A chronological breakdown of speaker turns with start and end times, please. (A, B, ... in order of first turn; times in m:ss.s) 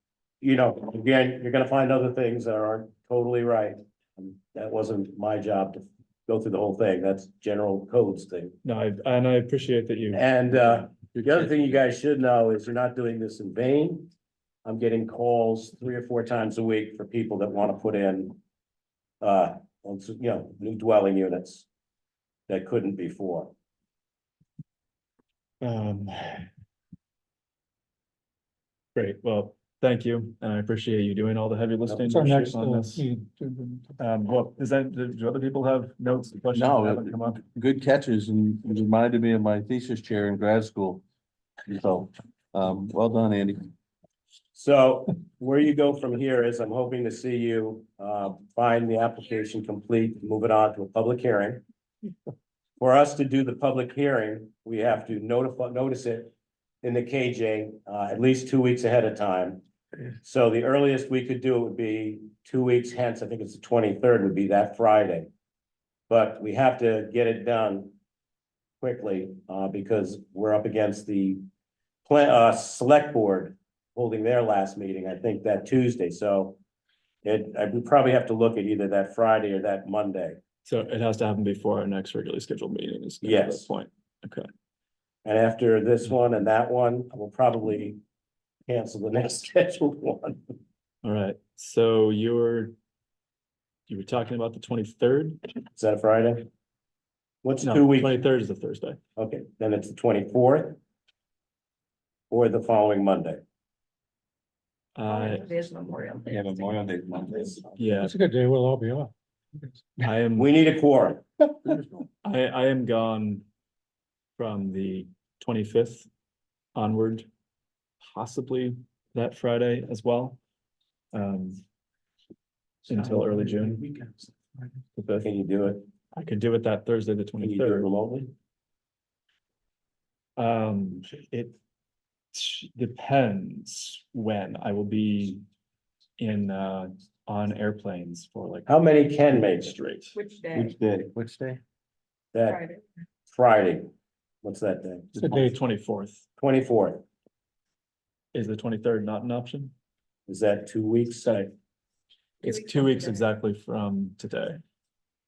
0:00.4-0:08.6 A
0:08.6-0:10.3 B
0:10.1-0:14.1 A
0:14.6-0:18.4 A
0:19.2-0:21.7 A
0:22.5-0:23.5 A
0:25.6-0:26.5 B
0:29.0-0:33.0 B
0:31.9-0:32.5 A
0:32.1-0:34.0 C
0:34.0-0:37.4 B
0:36.5-0:41.0 D
0:41.7-0:43.7 D
0:44.6-0:51.6 A
0:52.8-0:59.6 A
1:00.2-1:05.3 A
1:06.1-1:07.9 A
1:08.8-1:11.4 A
1:12.1-1:16.6 A
1:17.2-1:20.4 A
1:20.6-1:24.5 B
1:23.2-1:23.7 A
1:25.2-1:28.0 A
1:28.7-1:30.4 A
1:31.0-1:32.8 B
1:33.9-1:35.4 B
1:35.8-1:36.5 A
1:37.4-1:38.2 A
1:37.6-1:39.0 B
1:39.2-1:40.8 A
1:42.3-1:43.4 A
1:45.0-1:45.6 B
1:45.1-1:46.7 E
1:46.3-1:47.7 D
1:47.8-1:48.1 B
1:48.0-1:49.1 C
1:50.0-1:50.5 B
1:50.4-1:51.2 A
1:52.2-1:53.4 B
1:54.4-1:56.1 B
1:56.8-1:57.3 B
1:58.0-2:00.4 B
2:01.1-2:01.6 B
2:02.9-2:03.8 B
2:05.0-2:05.3 B
2:05.2-2:05.8 A
2:06.1-2:07.9 B
2:07.4-2:08.3 A
2:10.4-2:11.6 B
2:12.3-2:15.4 B
2:16.2-2:18.8 B
2:18.7-2:19.7 A
2:19.3-2:20.2 B
2:20.1-2:20.8 E
2:20.5-2:21.6 D
2:22.3-2:22.6 A
2:22.5-2:22.8 E
2:23.3-2:23.9 A
2:24.4-2:25.1 A
2:25.2-2:26.2 B
2:25.2-2:25.6 C
2:26.4-2:27.0 A
2:28.3-2:29.7 B
2:30.3-2:31.4 A
2:31.2-2:31.5 B
2:32.4-2:33.2 E
2:32.4-2:34.6 B